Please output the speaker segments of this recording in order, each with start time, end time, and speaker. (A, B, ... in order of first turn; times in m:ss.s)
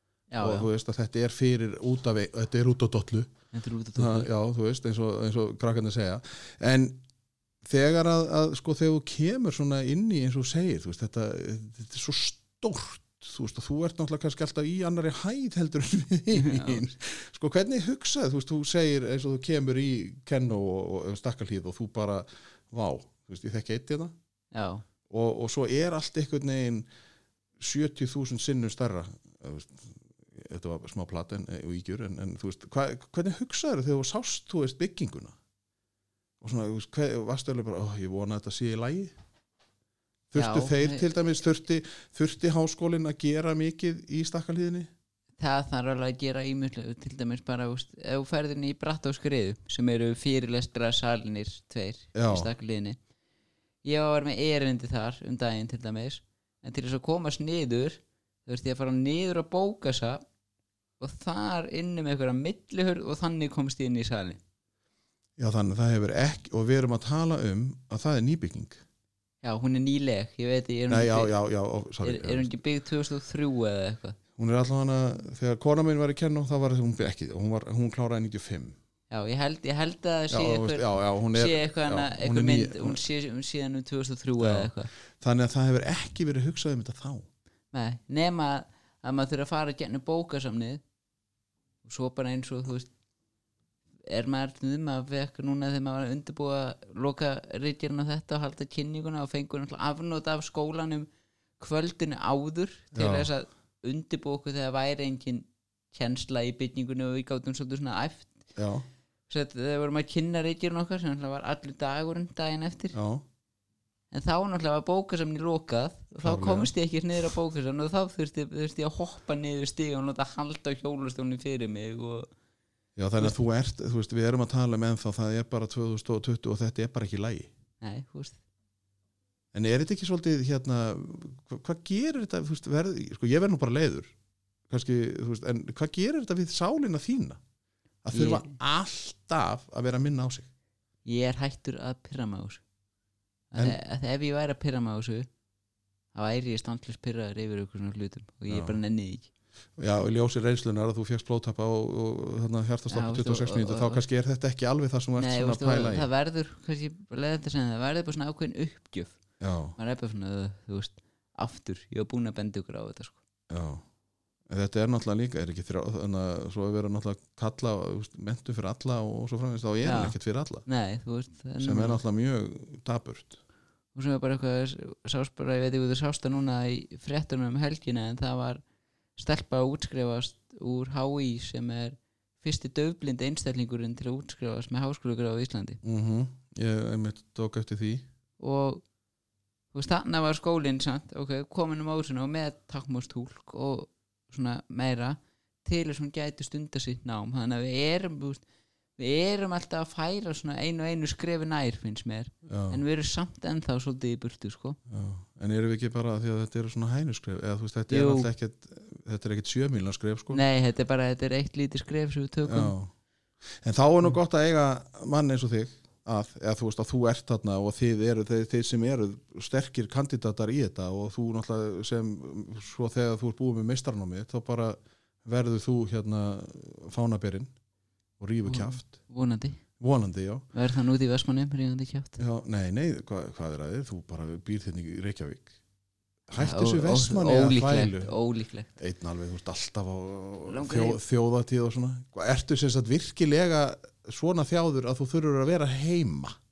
0:00.3-0:00.7 A
0:00.4-0:03.3 B
0:03.5-0:04.3 A
0:04.0-0:07.0 B
0:07.6-0:24.1 B
0:16.3-0:16.8 A
0:24.5-0:24.8 A
0:25.1-0:26.9 B
0:27.6-0:35.4 B
0:36.4-0:39.1 B
0:40.3-0:44.9 B
0:40.4-0:41.1 A
0:45.4-0:53.0 A
0:52.2-0:52.5 B
0:53.8-1:00.2 A
1:01.0-1:04.4 A
1:05.4-1:08.8 B
1:09.4-1:11.3 A
1:10.9-1:12.5 B
1:12.0-1:14.2 A
1:14.4-1:18.8 B
1:19.1-1:24.9 A
1:20.3-1:23.0 B
1:24.4-1:27.3 B
1:27.7-1:30.8 A
1:31.8-1:32.9 A
1:34.1-1:41.1 A
1:41.6-1:48.4 A
1:42.9-1:43.3 B
1:48.6-1:48.8 B
1:49.3-1:53.0 A
1:52.9-1:53.2 B
1:54.1-2:02.3 A
1:56.2-1:56.7 B
2:03.0-2:07.5 B
2:07.8-2:08.4 A
2:09.5-2:14.1 B
2:14.7-2:17.4 B
2:18.0-2:20.5 B
2:18.1-2:18.5 A
2:21.0-2:22.6 A
2:23.5-2:25.3 A
2:26.1-2:29.3 A
2:28.5-2:28.8 B
2:29.8-2:36.1 B
2:32.9-2:34.0 A
2:35.2-2:39.2 A
2:39.4-2:39.8 B
2:39.8-2:43.2 A
2:43.5-2:43.8 B
2:44.5-2:50.7 B
2:49.8-2:52.0 A
2:51.6-2:53.4 B
2:54.0-2:58.6 A
2:59.2-3:05.8 A
3:05.8-3:08.1 B
3:08.4-3:08.8 A
3:09.7-3:18.4 A
3:19.0-3:24.8 A
3:22.5-3:22.8 B
3:24.9-3:30.4 B
3:27.9-3:28.3 A
3:30.3-3:32.7 A
3:32.5-3:32.9 B
3:33.6-3:47.5 B
3:48.2-3:49.0 B
3:48.5-3:49.6 A
3:49.8-3:50.5 B
3:50.5-3:52.2 A
3:52.2-3:55.5 B
3:56.3-3:58.1 B
3:56.4-3:58.7 A
3:58.8-4:06.4 B
4:00.4-4:01.0 A